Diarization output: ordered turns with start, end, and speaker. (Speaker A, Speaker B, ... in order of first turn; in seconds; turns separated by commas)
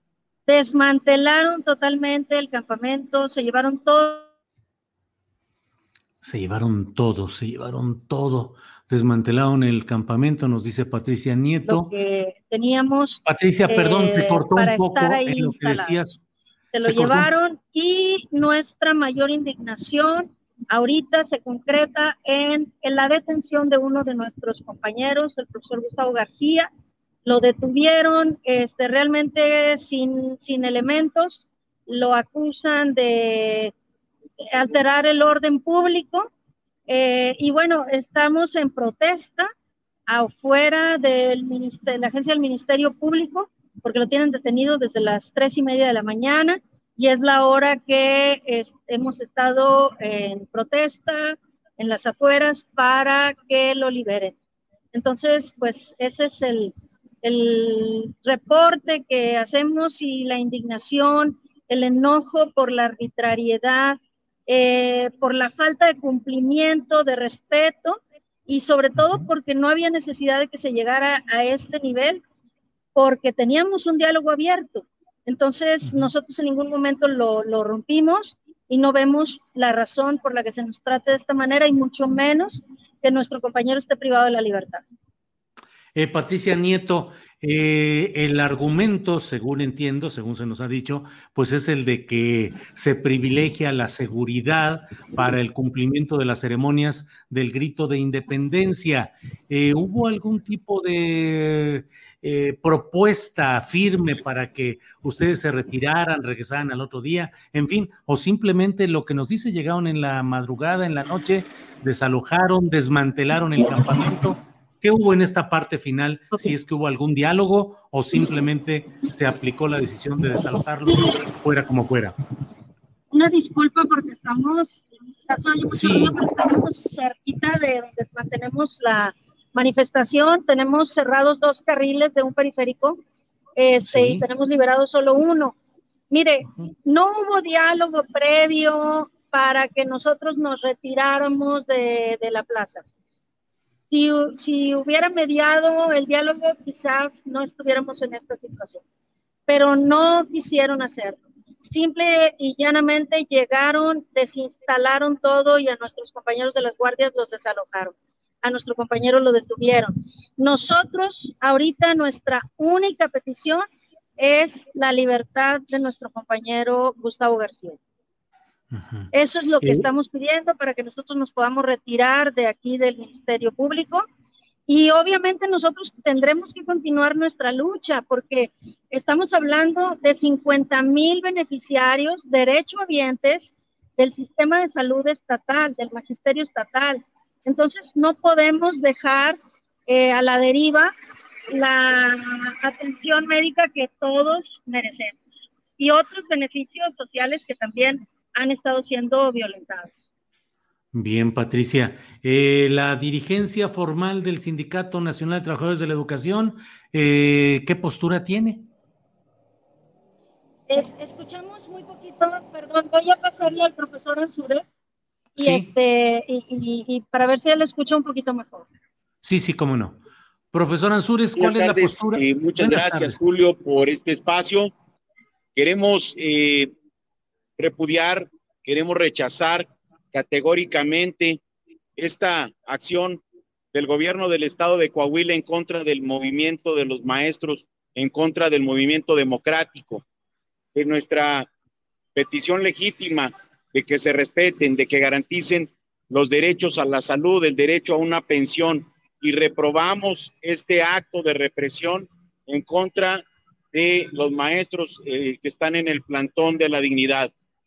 Speaker A: 0.5-4.3, Speaker B: 6.2-11.9, Speaker A: 11.6-16.0, Speaker B: 13.2-16.2, Speaker A: 16.7-26.7, Speaker B: 16.8-17.3, Speaker A: 27.2-33.7, Speaker A: 34.5-36.3, Speaker A: 36.9-39.5, Speaker A: 40.1-54.4, Speaker A: 54.9-72.2, Speaker B: 69.0-69.3, Speaker A: 72.9-84.8, Speaker B: 75.8-76.1, Speaker B: 85.9-122.1, Speaker A: 120.8-121.3, Speaker A: 123.1-133.0, Speaker B: 125.7-126.2, Speaker A: 133.6-135.5, Speaker B: 133.8-134.2, Speaker A: 136.1-142.8, Speaker A: 143.9-148.8, Speaker A: 149.5-163.6, Speaker A: 164.2-167.8, Speaker B: 168.7-169.8, Speaker A: 169.1-174.0, Speaker A: 174.7-189.4, Speaker A: 189.9-190.9, Speaker A: 191.5-195.2, Speaker A: 195.8-199.9, Speaker B: 200.9-208.7, Speaker A: 210.7-214.7, Speaker A: 215.3-218.7, Speaker B: 215.4-215.7, Speaker B: 219.2-220.0, Speaker B: 220.5-223.2, Speaker C: 221.3-224.7, Speaker C: 225.5-226.7, Speaker C: 227.6-231.4, Speaker C: 232.0-233.2, Speaker C: 233.7-240.0, Speaker C: 240.7-241.5, Speaker C: 242.1-257.3